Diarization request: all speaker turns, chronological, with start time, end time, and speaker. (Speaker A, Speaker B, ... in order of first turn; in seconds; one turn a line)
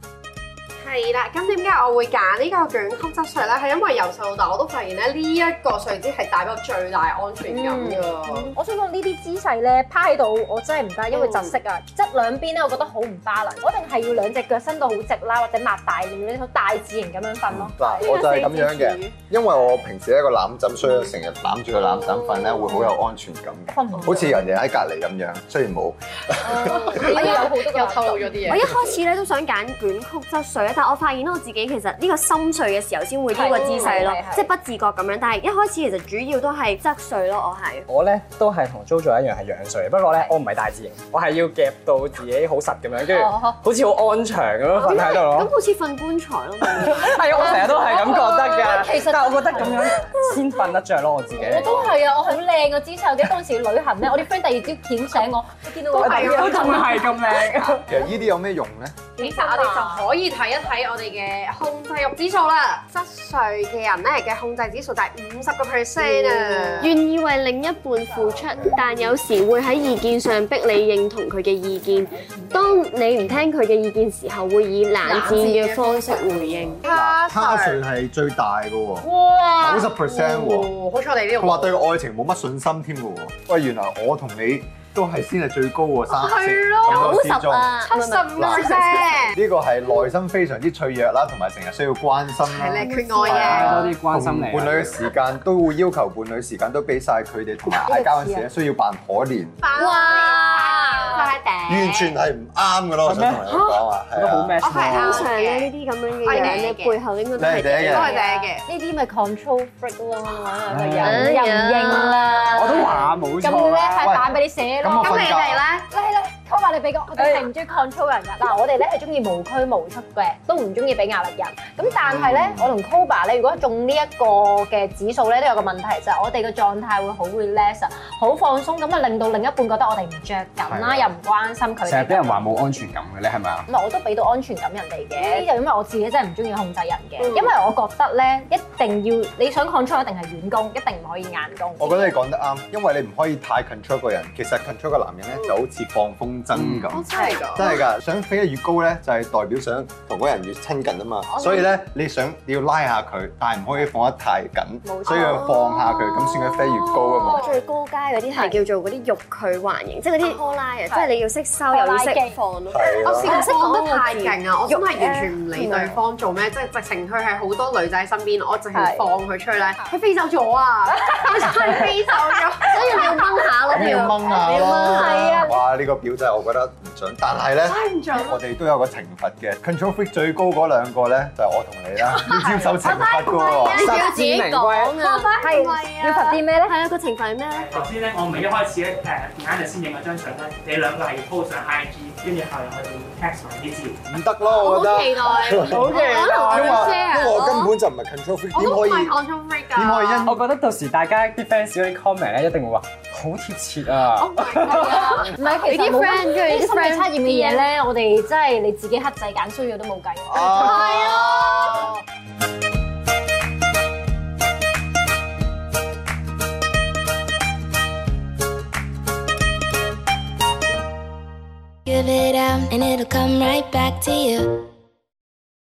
Speaker A: 0.8-8.5
Speaker B: 7.5-18.5
Speaker A: 11.1-11.6
Speaker C: 17.5-27.2
Speaker A: 18.0-19.1
Speaker B: 23.7-24.4
Speaker B: 26.4-28.6
Speaker A: 26.5-28.7
Speaker D: 28.5-37.9
Speaker B: 33.3-34.5
Speaker A: 33.5-34.1
Speaker E: 37.9-45.5
Speaker B: 43.1-43.5
Speaker D: 44.7-47.9
Speaker E: 46.6-51.8
Speaker B: 47.4-49.9
Speaker B: 51.3-57.2
Speaker A: 55.9-57.0
Speaker E: 55.9-57.9
Speaker C: 57.9-59.1
Speaker A: 59.2-67.0
Speaker B: 59.2-60.0
Speaker D: 66.0-76.8
Speaker A: 75.0-77.8
Speaker C: 76.8-80.7
Speaker A: 79.0-81.7
Speaker C: 81.4-87.8
Speaker A: 86.1-87.3
Speaker D: 86.8-89.2
Speaker A: 87.8-89.4
Speaker C: 88.3-99.6
Speaker A: 92.4-93.9
Speaker D: 92.8-93.6
Speaker E: 93.3-95.1
Speaker B: 97.8-98.5
Speaker A: 99.6-101.9
Speaker D: 99.7-102.0
Speaker C: 101.7-105.1
Speaker E: 103.0-103.6
Speaker E: 104.1-105.2
Speaker A: 104.6-105.7
Speaker D: 105.0-108.2
Speaker A: 106.2-107.0
Speaker C: 107.4-108.1
Speaker A: 107.8-108.6
Speaker B: 107.9-115.3
Speaker E: 110.7-111.4
Speaker D: 111.0-112.3
Speaker E: 112.5-114.2
Speaker C: 114.0-115.6
Speaker A: 115.0-115.9
Speaker B: 115.9-132.4
Speaker C: 121.8-122.7
Speaker E: 131.8-133.7
Speaker B: 133.7-142.2
Speaker A: 137.2-137.5
Speaker C: 141.8-157.5
Speaker E: 146.5-146.9
Speaker A: 146.9-147.8
Speaker B: 154.8-155.4
Speaker A: 155.0-155.6
Speaker D: 155.2-165.2
Speaker A: 156.7-157.6
Speaker B: 158.3-158.6
Speaker B: 160.2-161.1
Speaker B: 161.7-162.4
Speaker C: 162.7-163.4
Speaker A: 163.0-173.9
Speaker B: 165.0-165.9
Speaker B: 168.7-169.1
Speaker B: 171.1-171.8
Speaker D: 172.7-175.4
Speaker C: 173.7-184.1
Speaker B: 174.5-175.6
Speaker A: 177.7-178.4
Speaker D: 182.8-187.9
Speaker E: 183.7-185.1
Speaker A: 185.1-185.6
Speaker B: 185.4-186.7
Speaker F: 187.5-194.1
Speaker C: 194.1-199.2
Speaker A: 194.6-197.4
Speaker D: 195.4-197.7
Speaker E: 195.6-197.1
Speaker A: 198.5-200.3
Speaker C: 199.7-200.4
Speaker E: 200.2-205.2
Speaker A: 204.1-205.3
Speaker B: 204.7-210.9
Speaker D: 205.4-207.7
Speaker C: 210.3-212.0
Speaker D: 210.6-211.7
Speaker A: 210.6-211.2
Speaker G: 221.8-224.7